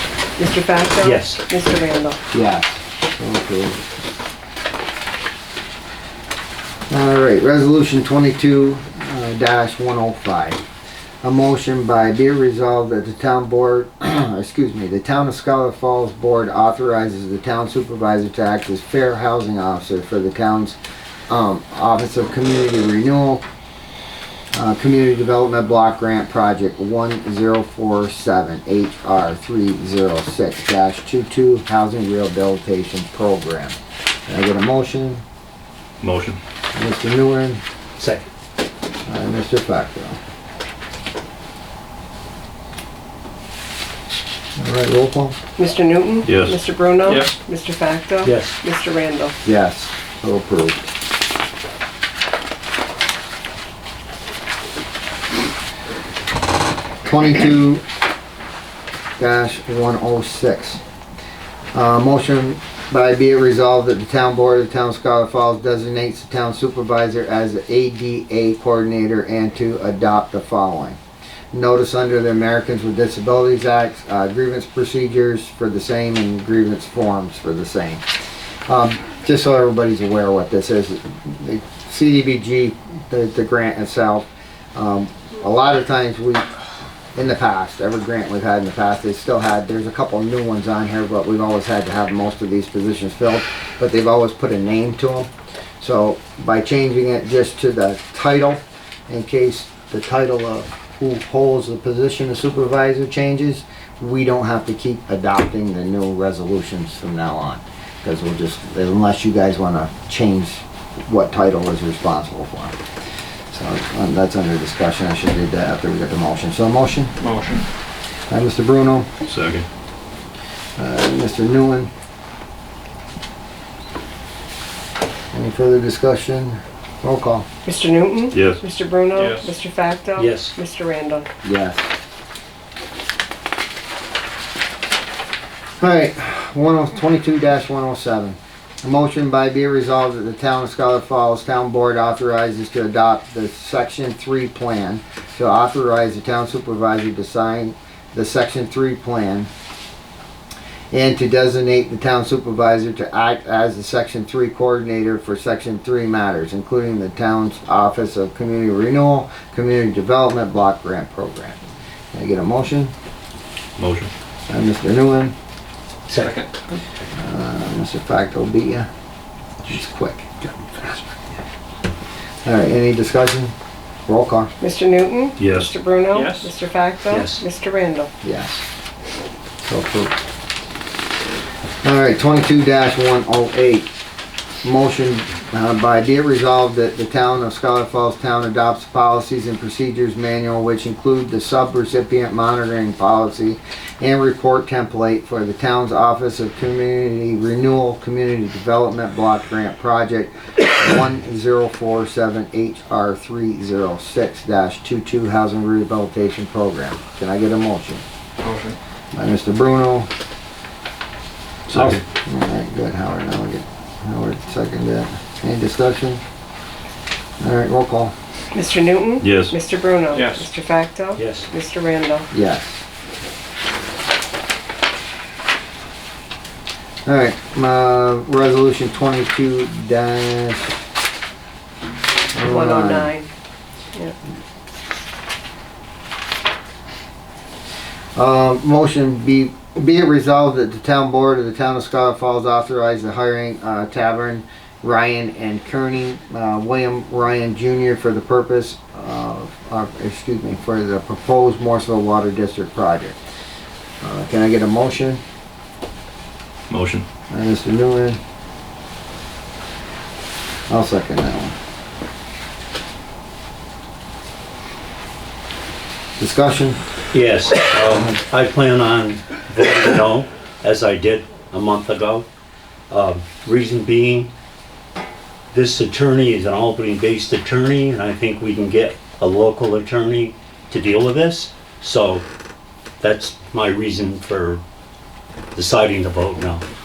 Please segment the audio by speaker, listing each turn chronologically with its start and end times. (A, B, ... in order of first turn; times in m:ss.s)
0:00.4-0:02.2 A
0:01.0-0:01.4 B
0:02.3-0:03.8 C
0:06.9-0:10.6 C
0:11.2-0:20.8 C
0:21.3-0:23.4 C
0:24.5-0:35.2 C
0:36.0-0:36.4 D
0:36.7-0:37.6 C
0:38.0-0:38.3 B
0:39.1-0:40.2 C
0:44.6-0:45.4 C
0:45.6-0:49.4 A
0:46.2-0:46.6 D
0:47.0-0:47.3 E
0:48.2-0:48.6 B
0:49.4-0:50.9 C
0:57.0-0:57.8 C
0:59.2-1:00.8 C
1:01.7-1:11.0 C
1:11.5-1:18.0 C
1:18.7-1:52.8 C
1:53.5-1:57.1 C
1:57.2-1:57.6 E
1:58.3-1:59.1 C
1:59.3-1:59.6 D
2:00.8-2:01.9 C
2:05.3-2:07.4 C
2:07.6-2:11.3 A
2:08.3-2:08.6 D
2:09.1-2:09.5 E
2:10.2-2:10.5 B
2:11.4-2:11.8 C
2:15.8-2:29.5 C
2:30.9-2:41.6 C
2:42.1-2:42.9 C
2:43.8-2:44.1 D
2:44.5-2:45.3 C
2:46.1-2:46.4 B
2:46.1-2:46.5 E
2:47.2-2:48.9 C
2:49.6-2:51.4 C
2:52.4-2:53.5 C
2:54.1-2:54.5 C
2:54.6-2:58.1 A
2:55.4-2:55.7 D
2:56.1-2:56.5 E
2:57.1-2:57.4 B
2:58.2-2:58.6 C
2:59.6-3:00.1 C
3:01.8-3:03.9 C
3:04.6-3:28.0 C
3:28.4-3:28.8 E
3:29.1-3:30.1 C
3:31.7-3:32.0 D
3:31.7-3:36.2 C
3:37.4-3:38.1 C
3:38.5-3:42.3 A
3:39.2-3:39.5 D
3:40.1-3:40.4 E
3:41.2-3:41.5 B
3:42.3-3:42.8 C
3:47.0-3:50.8 C
3:52.3-3:53.1 C
3:52.4-3:53.3 A
3:58.2-4:13.2 C
4:14.0-4:15.2 C
4:16.7-4:17.0 D
4:17.3-4:18.2 C
4:20.7-4:21.5 C
4:26.2-4:26.8 C
4:27.1-4:32.2 B
4:32.9-4:34.3 B
4:35.5-4:42.2 B
4:43.0-4:44.6 B
4:45.5-4:46.6 B